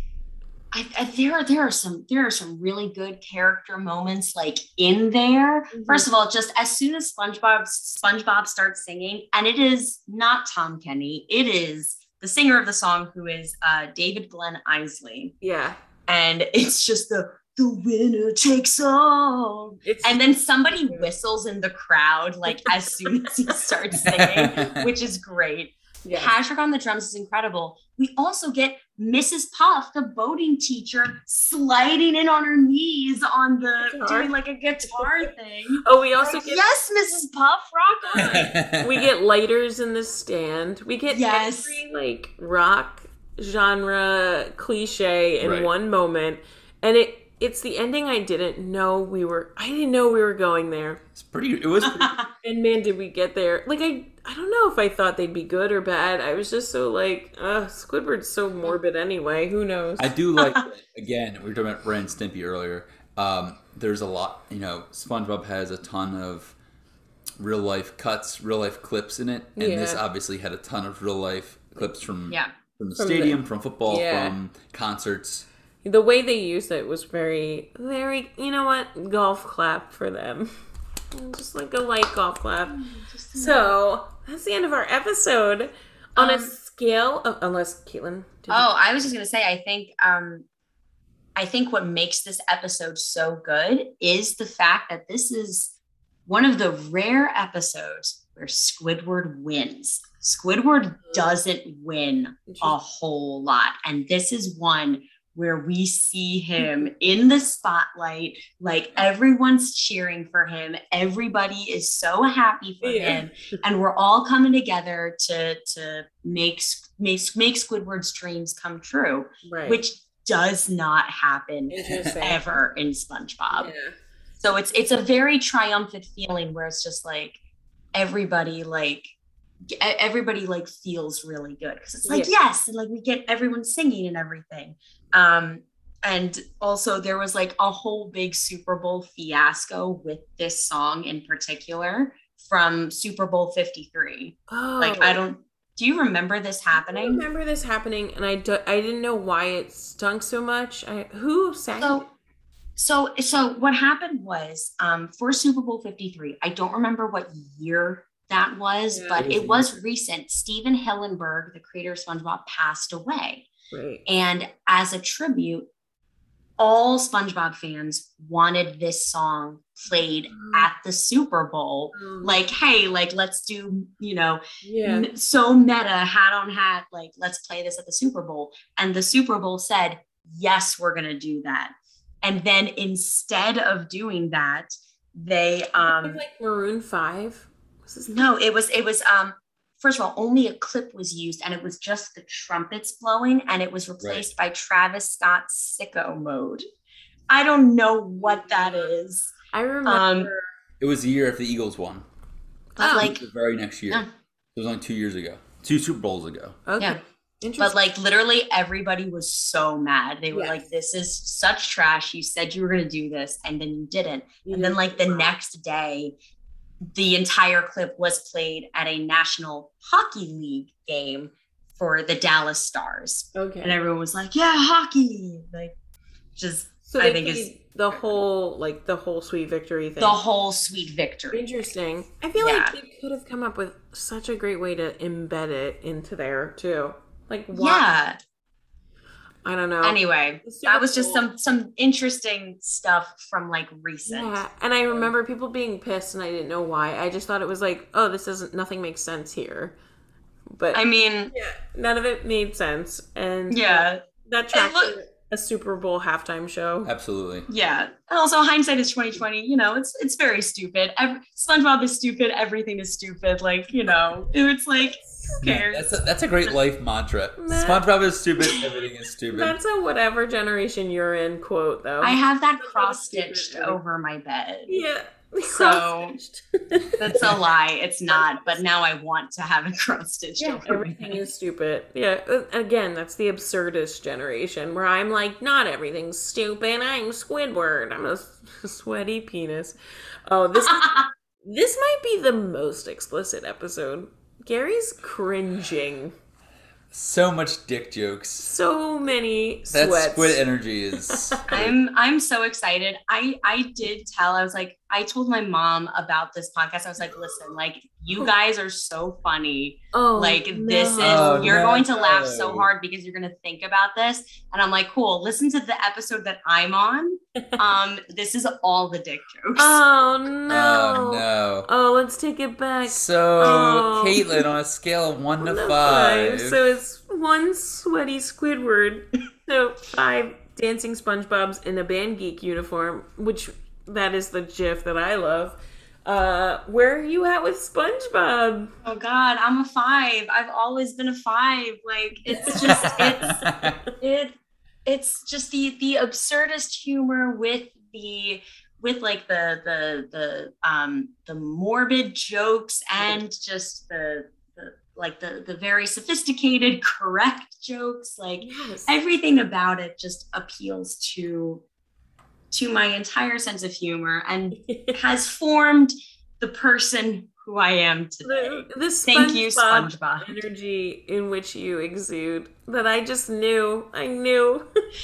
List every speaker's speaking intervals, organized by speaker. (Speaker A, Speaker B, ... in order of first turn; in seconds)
Speaker A: 0.7-15.3, 16.1-38.5, 41.1-41.8, 51.8-52.3, 60.4-60.6, 82.7-83.7, 86.2-86.5, 88.5-90.5, 91.3-95.7, 96.3-123.7, 124.4-127.4, 127.9-129.1, 129.7-147.2, 151.8-152.0, 152.8-163.5, 164.1-165.7, 166.6-186.2, 188.1-196.6, 197.3-199.3, 199.8-200.3, 202.8-203.2, 207.6-216.1, 216.9-225.8, 226.3-227.5, 230.0-231.4, 232.4-232.7, 237.5-238.2, 239.8-244.4, 250.7-251.3, 253.5-254.0, 254.5-254.9, 257.5-265.9, 272.0-274.8, 275.4-276.2, 277.0-280.7, 290.6-291.1, 301.5-319.8, 338.8-343.4, 344.0-344.3, 344.8-361.6, 362.5-370.4
Speaker B: 5.7-6.1, 15.4-15.8, 19.8-21.1, 22.6-22.9, 26.0-26.3, 33.8-34.3, 34.9-35.2, 35.8-36.7, 38.1-51.0, 52.4-60.1, 69.6-70.0, 73.0-74.3, 75.8-80.5, 81.1-82.8, 83.3-88.7, 102.5-102.7, 112.8-113.2, 119.4-119.8, 121.7-122.6, 123.5-123.9, 132.0-132.3, 144.5-145.2, 146.7-152.0, 158.9-159.3, 163.7-164.0, 170.3-170.7, 171.9-172.4, 174.6-175.1, 185.8-188.3, 198.2-198.8, 199.5-200.5, 202.8-203.1, 206.7-207.8, 210.3-210.6, 214.4-215.3, 223.3-223.8, 226.9-230.2, 231.3-237.9, 239.4-241.2, 244.1-249.7, 250.6-256.9, 267.4-267.8, 269.3-273.8, 274.7-277.4, 278.1-278.6, 280.4-289.8, 290.3-296.1, 298.4-300.4, 309.9-311.7, 319.6-324.4, 325.4-338.7, 342.3-343.3, 358.4-358.9, 364.5-365.0, 368.2-374.6
Speaker C: 24.0-24.8, 38.2-39.0, 45.4-45.7, 51.1-52.2, 60.0-66.5, 67.4-75.5, 159.2-159.7, 194.0-194.2, 200.8-202.1, 202.8-206.6, 256.8-257.5, 265.4-269.6, 280.6-281.3, 296.9-298.5, 299.7-301.7, 311.0-312.7, 320.5-321.7, 322.9-326.6, 342.6-343.8